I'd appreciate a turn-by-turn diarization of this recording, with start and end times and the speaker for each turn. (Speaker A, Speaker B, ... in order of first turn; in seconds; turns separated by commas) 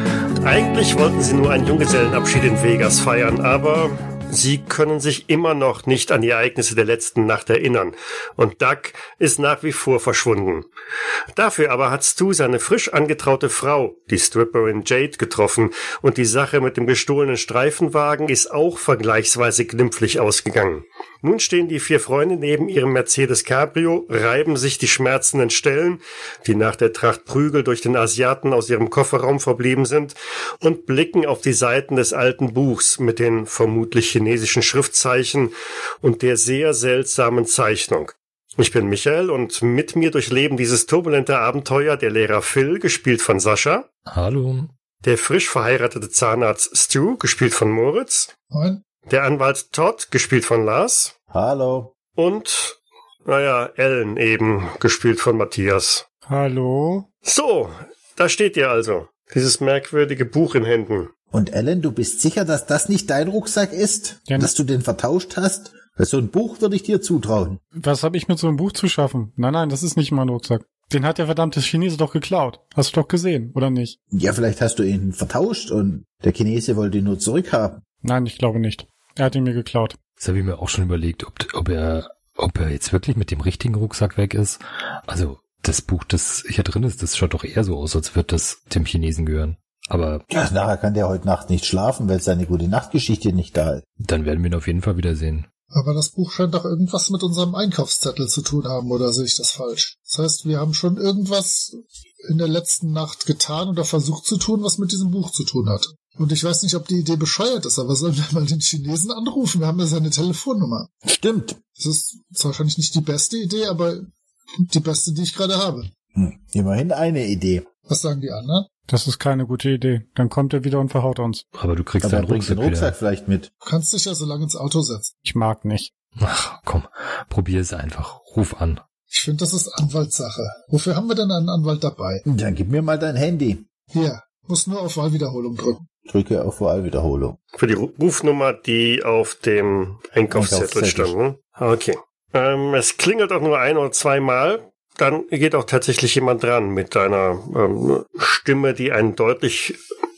Speaker A: 0.4-10.7, Speaker A: 11.3-43.9, Speaker B: 44.1-44.7, Speaker A: 45.0-48.3, Speaker C: 48.5-48.8, Speaker A: 49.1-51.1, Speaker D: 51.3-51.9, Speaker A: 52.2-56.0, Speaker E: 56.2-57.0, Speaker A: 57.2-61.1, Speaker D: 61.3-67.6, Speaker E: 64.3-64.5, Speaker E: 67.8-74.0, Speaker D: 74.1-77.8, Speaker E: 78.0-80.0, Speaker B: 80.2-90.2, Speaker D: 90.3-93.8, Speaker B: 94.0-95.5, Speaker C: 95.7-110.9, Speaker D: 111.0-111.6, Speaker C: 111.8-114.1, Speaker C: 114.7-115.9, Speaker D: 116.1-117.7, Speaker C: 117.9-118.7, Speaker E: 118.9-121.4, Speaker B: 121.5-122.9, Speaker D: 122.0-123.5, Speaker C: 123.6-125.1, Speaker E: 125.2-125.9, Speaker B: 126.2-128.8, Speaker C: 129.1-132.2, Speaker D: 132.2-133.6, Speaker C: 133.9-135.9, Speaker D: 136.1-137.4, Speaker A: 137.6-149.8, Speaker D: 140.3-141.1